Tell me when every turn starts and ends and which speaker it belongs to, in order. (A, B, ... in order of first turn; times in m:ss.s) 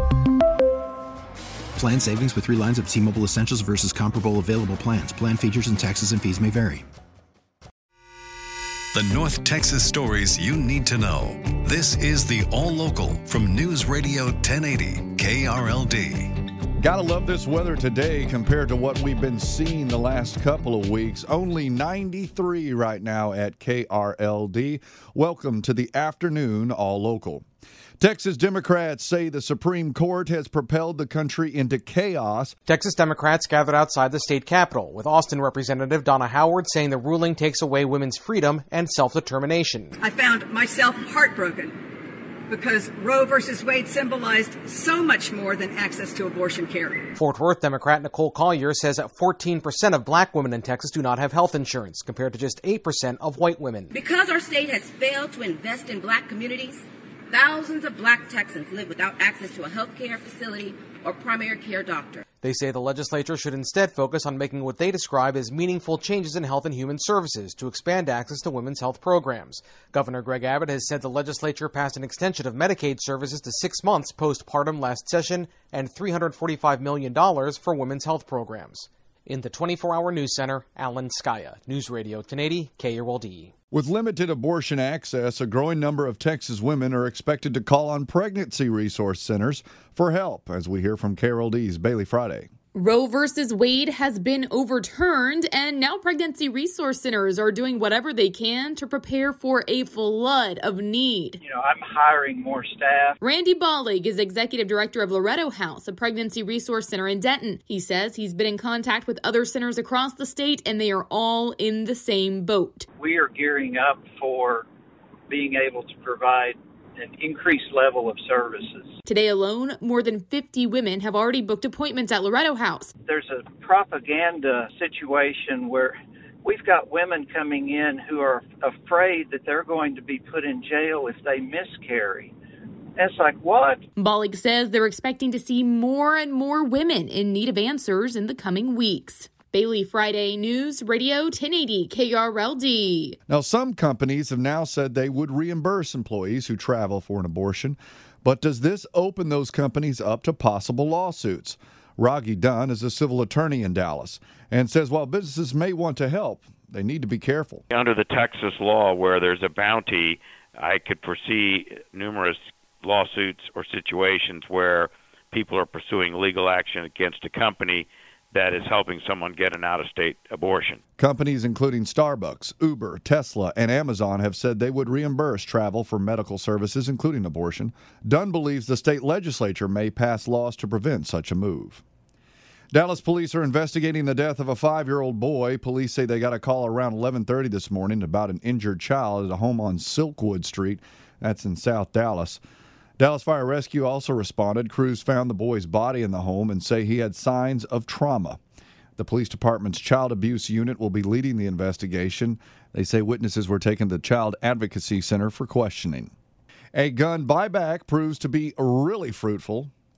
0:01.8-0:06.8 A
0:08.9-0:16.3 B
0:16.8-0:27.4 C
0:28.0-0:32.6 C
0:32.7-0:39.9 D
0:40.2-0:41.6 E
0:42.6-0:46.8 E
0:47.1-0:53.9 D
0:53.9-1:02.2 F
1:02.4-1:23.5 D
1:23.7-1:32.5 C
1:32.8-1:41.4 G
1:41.4-1:43.2 H
1:43.2-1:52.9 G
1:53.0-1:54.7 H
1:55.3-1:59.0 H
1:59.1-2:02.9 G
2:03.0-2:12.3 H
2:13.0-2:13.9 H
2:14.0-2:23.2 G
2:23.3-2:37.6 C
2:37.7-2:50.8 I
2:51.0-3:01.8 C
3:02.7-3:12.4 C
3:13.0-3:18.4 C
3:19.0-3:26.1 C
3:26.7-3:29.7 C